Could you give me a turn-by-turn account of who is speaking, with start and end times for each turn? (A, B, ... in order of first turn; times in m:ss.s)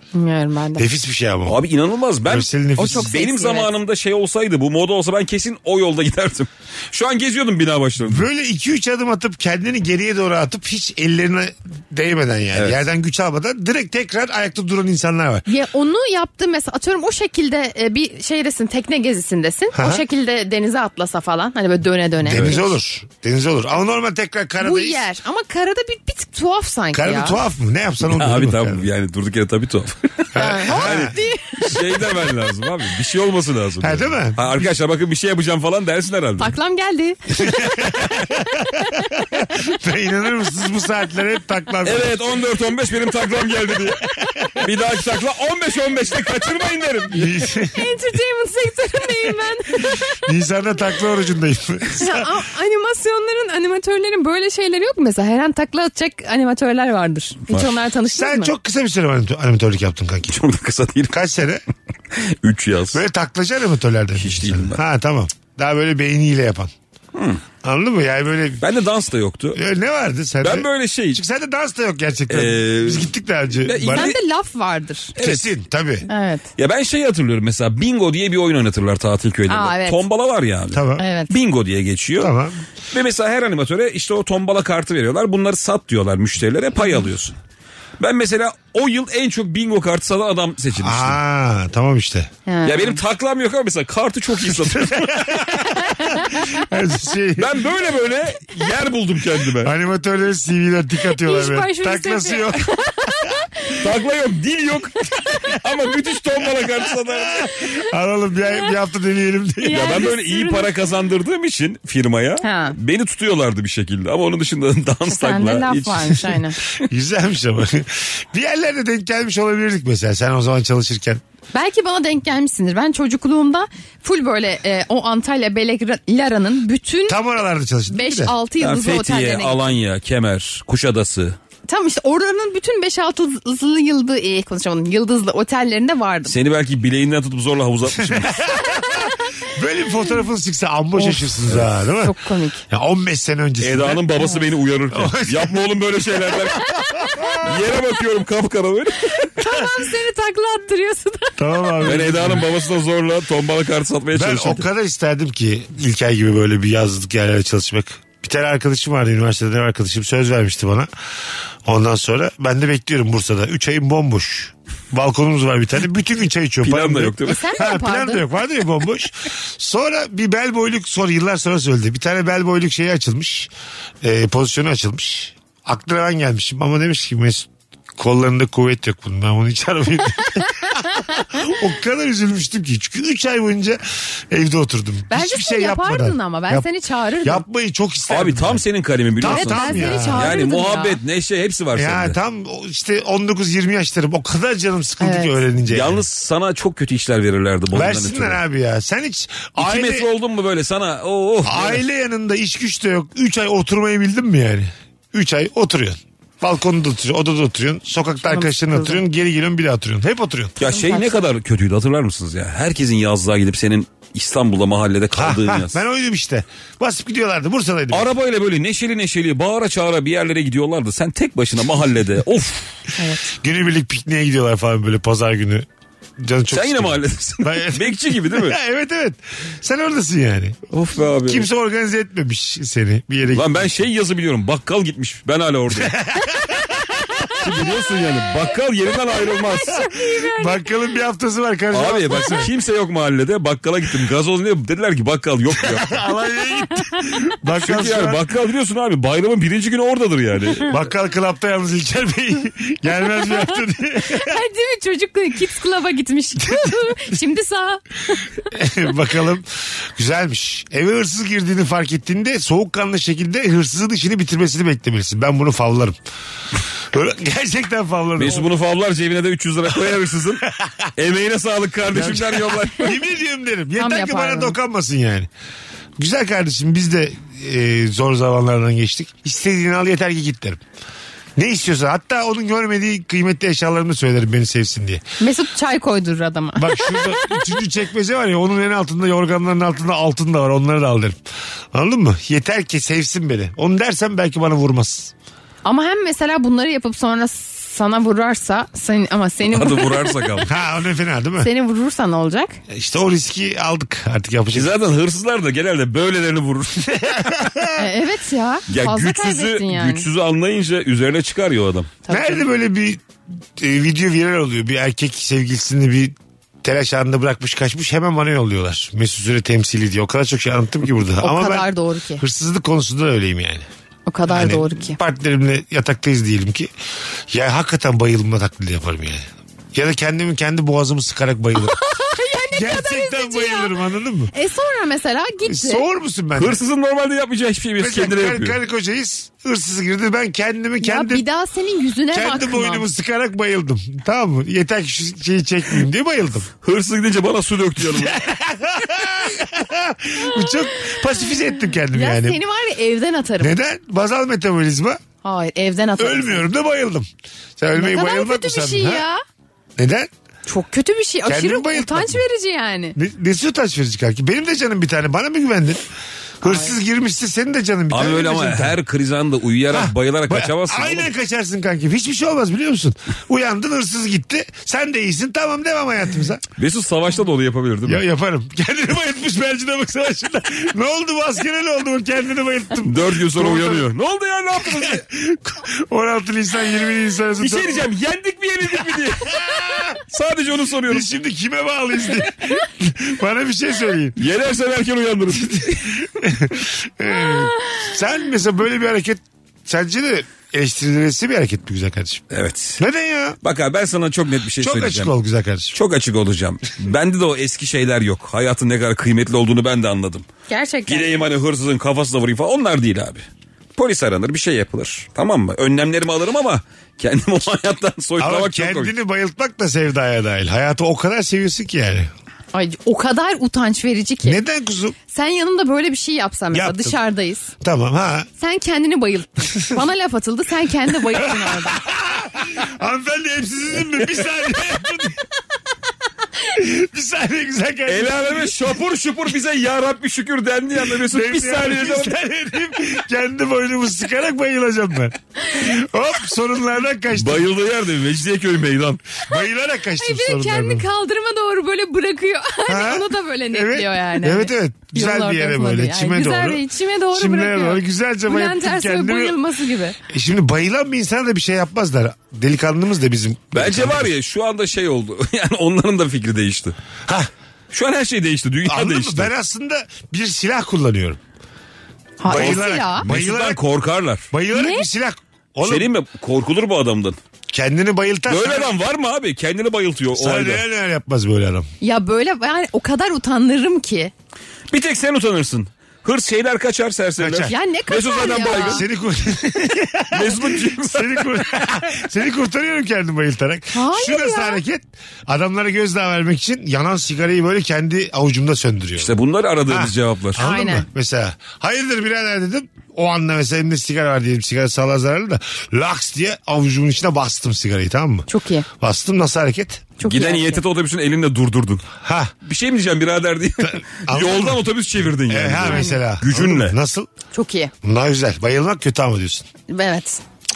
0:00.1-0:00.8 A
0:00.8-0:01.6 B
0:01.5-0:08.3 C
0:02.2-0:03.1 B
0:02.8-0:03.7 A
0:08.0-0:15.5 B
0:15.5-0:22.7 A
0:19.7-0:20.0 B
0:22.2-0:25.0 B
0:22.3-0:22.6 C
0:24.6-0:27.4 A
0:26.9-0:28.9 B
0:28.0-0:36.5 C
0:30.4-0:31.2 B
0:30.4-0:31.8 A
0:33.8-0:34.7 B
0:36.4-0:39.5 A
0:37.4-0:42.2 B
0:41.8-0:47.4 C
0:47.1-0:47.9 B
0:47.6-0:50.3 A
0:50.1-0:52.3 B
0:52.0-0:58.5 A
0:58.1-1:00.4 B
1:00.3-1:01.2 C
1:01.1-1:01.6 B
1:02.1-1:03.0 C
1:02.9-1:06.7 B
1:04.2-1:04.8 C
1:07.1-1:07.4 C
1:07.6-1:08.6 B
1:08.6-1:09.6 C
1:09.5-1:14.1 B
1:10.4-1:11.2 C
1:12.3-1:14.2 C
1:13.9-1:15.1 A
1:15.2-1:15.5 C
1:15.2-1:16.1 B
1:16.1-1:16.4 A
1:16.6-1:22.3 C
1:19.5-1:20.0 A
1:20.7-1:21.0 B
1:21.0-1:21.3 A
1:22.2-1:22.6 B
1:22.9-1:27.4 C
1:28.0-1:31.2 C
1:30.8-1:32.3 B
1:32.5-1:33.0 A
1:32.6-1:35.9 C
1:34.5-1:35.7 B
1:35.7-1:36.6 A
1:36.3-1:37.6 B
1:37.4-1:39.7 C
1:39.6-1:42.7 B
1:41.1-1:43.8 A
1:43.8-1:47.5 C
1:47.1-1:50.0 B
1:49.6-1:50.7 A
1:49.7-1:56.3 C
1:52.4-1:52.8 A
1:55.1-1:56.6 A
1:56.8-2:01.2 B
2:01.5-2:07.2 A
2:07.1-2:08.3 B
2:07.9-2:09.7 A
2:08.6-2:11.4 C
2:11.7-2:16.3 A
2:16.3-2:18.5 C
2:18.0-2:22.2 B
2:21.0-2:21.4 A
2:22.0-2:22.6 A
2:22.7-2:24.1 B
2:23.6-2:26.7 C
2:24.9-2:25.6 B
2:26.7-2:27.3 A
2:27.1-2:27.4 B
2:27.4-2:29.3 C
2:29.0-2:31.8 A
2:31.4-2:32.5 B
2:31.8-2:34.6 C
2:34.1-2:40.9 B
2:41.7-2:53.5 B
2:46.6-2:47.5 C
2:47.2-2:48.2 A
2:54.0-3:06.7 B
3:00.4-3:01.3 A
3:05.1-3:07.4 A
3:07.2-3:08.6 B
3:08.1-3:12.2 C
3:09.2-3:10.4 B
3:09.3-3:11.0 A
3:11.8-3:16.0 B
3:15.0-3:15.4 A
3:15.7-3:18.4 C
3:17.7-3:20.1 B
3:19.6-3:21.8 C
3:21.4-3:30.6 B
3:28.2-3:29.0 A
3:30.6-3:31.2 A
3:30.6-3:35.8 C
3:35.2-3:38.1 B
3:37.9-3:42.7 C
3:43.0-3:43.3 A
3:43.4-3:45.7 B
3:46.2-3:50.6 B
3:46.5-3:48.6 C
3:50.7-3:51.5 C
3:51.2-3:53.7 B
3:53.3-3:56.0 C
3:55.8-3:57.0 B
3:57.2-3:57.8 A
3:57.4-3:59.9 C
3:59.2-4:00.7 A
4:00.2-4:02.5 B
4:01.7-4:06.0 C
4:05.6-4:08.2 B
4:06.8-4:07.2 A
4:07.6-4:10.7 C
4:10.7-4:14.4 B
4:13.3-4:18.3 A
4:16.5-4:16.7 B
4:18.5-4:26.0 B
4:26.9-4:28.5 B
4:28.2-4:30.4 C
4:30.4-4:30.9 B
4:31.0-4:33.0 C
4:31.9-4:35.3 B
4:33.8-4:34.6 A
4:36.0-4:40.6 B
4:41.4-4:45.0 B
4:45.2-4:47.5 A
4:46.6-4:51.2 B
4:51.7-4:55.1 B
4:55.6-5:00.5 A
4:59.5-5:00.5 C
5:00.5-5:01.5 B
5:01.4-5:02.6 A
5:02.7-5:04.7 B
5:04.5-5:07.3 C
5:06.9-5:07.9 B
5:07.8-5:10.1 A
5:08.7-5:11.9 C
5:12.0-5:12.5 A
5:12.1-5:13.0 B
5:13.6-5:23.7 B
5:21.2-5:22.2 A
5:24.1-5:25.0 A
5:24.3-5:26.7 B
5:27.3-5:31.8 B
5:31.6-5:33.7 A
5:32.5-5:34.3 B
5:34.3-5:35.8 A
5:35.4-5:36.6 B
5:36.4-5:38.6 C
5:37.8-5:41.2 B
5:40.8-5:42.9 A
5:42.1-5:46.5 B
5:46.6-5:48.2 C
5:47.8-5:52.4 B
5:51.9-5:53.6 A
5:53.4-5:55.0 B
5:55.2-5:56.5 A
5:56.0-5:57.1 B
5:57.6-5:59.0 B
5:57.7-5:59.2 A
5:59.8-6:00.1 B
6:00.5-6:03.0 A
6:01.3-6:02.2 B
6:03.0-6:05.9 B
6:06.4-6:06.7 A
6:06.4-6:08.8 B
6:07.9-6:11.1 C
6:09.7-6:16.4 B
6:16.6-6:18.0 C
6:17.9-6:23.9 B
6:22.8-6:25.0 C
6:24.6-6:27.9 B
6:27.4-6:31.1 C
6:28.8-6:30.0 B
6:30.9-6:34.2 B
6:34.2-6:36.1 C
6:36.0-6:42.2 B
6:42.3-6:42.8 C
6:42.8-6:43.4 B
6:43.4-6:45.1 C
6:44.6-6:45.8 B
6:45.7-6:50.3 C
6:50.5-6:51.1 A
6:50.9-6:53.2 C
6:53.8-6:58.9 C
6:58.2-7:02.1 B
7:02.5-7:04.4 A
7:04.2-7:05.0 B
7:05.1-7:07.5 A
7:06.5-7:07.0 B
7:07.6-7:08.3 B
7:08.4-7:11.9 A
7:11.2-7:15.3 B
7:16.4-7:18.5 B
7:17.9-7:22.1 C
7:20.8-7:27.5 B
7:27.1-7:29.1 C
7:29.2-7:30.8 B
7:30.0-7:40.0 A
7:32.7-7:39.4 B
7:40.1-7:44.1 B
7:43.5-7:46.8 C
7:47.7-7:49.3 C
7:48.6-7:51.2 B
7:52.2-7:53.1 A
7:52.2-7:53.6 B
7:52.3-7:54.3 C
7:54.3-7:55.9 B
7:54.5-7:54.9 A
7:55.6-7:57.2 C
7:57.5-7:58.7 B
7:58.3-8:00.6 C
8:00.1-8:01.7 B
8:01.8-8:04.1 A
8:04.7-8:08.9 C
8:07.2-8:07.6 B
8:07.5-8:08.8 A
8:08.4-8:19.1 B
8:10.1-8:11.6 C
8:13.7-8:14.6 A
8:19.0-8:20.4 C
8:19.7-8:29.9 B
8:20.4-8:20.9 A
8:28.3-8:28.7 A
8:30.0-8:30.6 A
8:30.0-8:31.9 C
8:32.0-8:32.3 B
8:32.4-8:36.8 C
8:34.1-8:34.6 B
8:35.3-8:37.1 B
8:35.7-8:36.0 A
8:37.3-8:37.7 A
8:37.8-8:39.5 B
8:39.7-8:40.2 A